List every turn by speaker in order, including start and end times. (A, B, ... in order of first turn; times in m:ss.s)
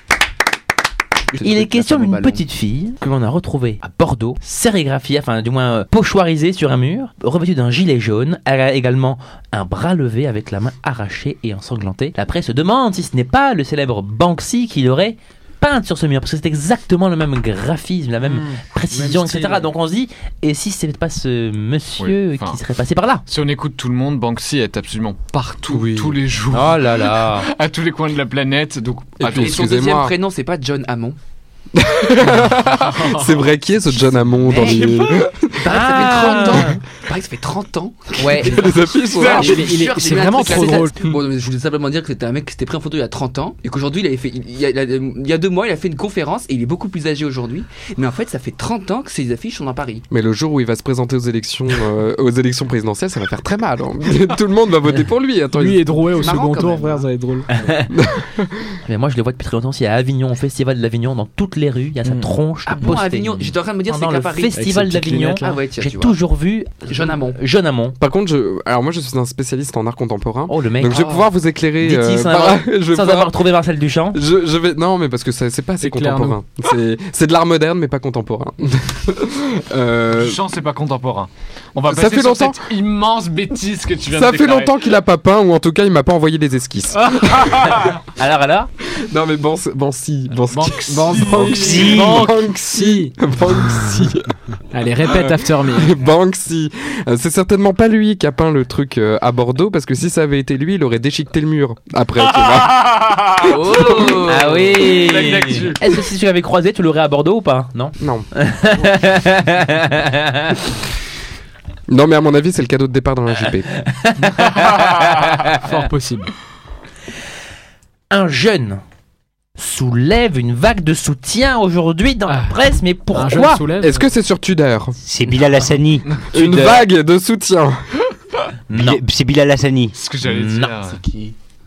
0:01.3-0:02.4 A
0:01.4-0:23.2 B
0:18.3-0:18.6 C
0:18.9-0:19.6 A
0:22.0-0:22.6 D
0:23.3-0:29.7 D
0:25.7-0:26.2 E
0:26.5-0:27.5 B
0:29.2-0:30.2 E
0:29.4-0:31.2 A
0:31.7-0:35.7 E
0:32.8-0:33.4 C
0:34.4-0:50.1 A
0:34.5-0:34.8 B
0:35.6-0:36.8 B
0:38.2-0:38.7 B
0:38.3-0:39.7 E
0:39.2-0:41.0 C
0:50.1-0:56.0 E
0:55.5-0:57.7 C
0:56.2-0:57.1 A
0:57.6-0:57.9 B
0:57.9-0:58.7 E
0:58.8-1:08.0 B
1:02.0-1:02.3 C
1:02.7-1:04.6 A
1:04.5-1:05.6 C
1:05.4-1:06.2 A
1:06.9-1:07.4 A
1:08.0-1:13.4 E
1:10.5-1:11.1 B
1:10.9-1:11.3 A
1:11.8-1:14.2 B
1:14.1-1:20.4 E
1:15.8-1:16.4 C
1:20.1-1:24.8 D
1:21.8-1:22.6 E
1:24.1-1:27.8 E
1:27.3-1:28.7 B
1:29.0-1:34.3 E
1:30.5-1:33.1 C
1:30.9-1:31.9 A
1:31.5-1:32.3 F
1:34.7-1:36.0 C
1:35.0-1:43.1 E
1:42.8-1:46.0 D
1:43.4-1:45.0 A
1:43.9-1:50.6 B
1:48.0-1:48.3 E
1:51.9-1:53.7 E
1:53.8-1:55.6 B
1:55.5-1:56.3 C
1:58.1-1:58.8 B
1:59.6-2:03.6 B
2:02.3-2:04.1 C
2:03.8-2:05.0 E
2:05.0-2:06.2 F
2:06.1-2:06.8 D
2:06.3-2:07.8 E
2:08.7-2:09.0 B
2:08.7-2:10.0 F
2:10.0-2:11.0 D
2:10.2-2:10.7 B
2:10.9-2:11.4 A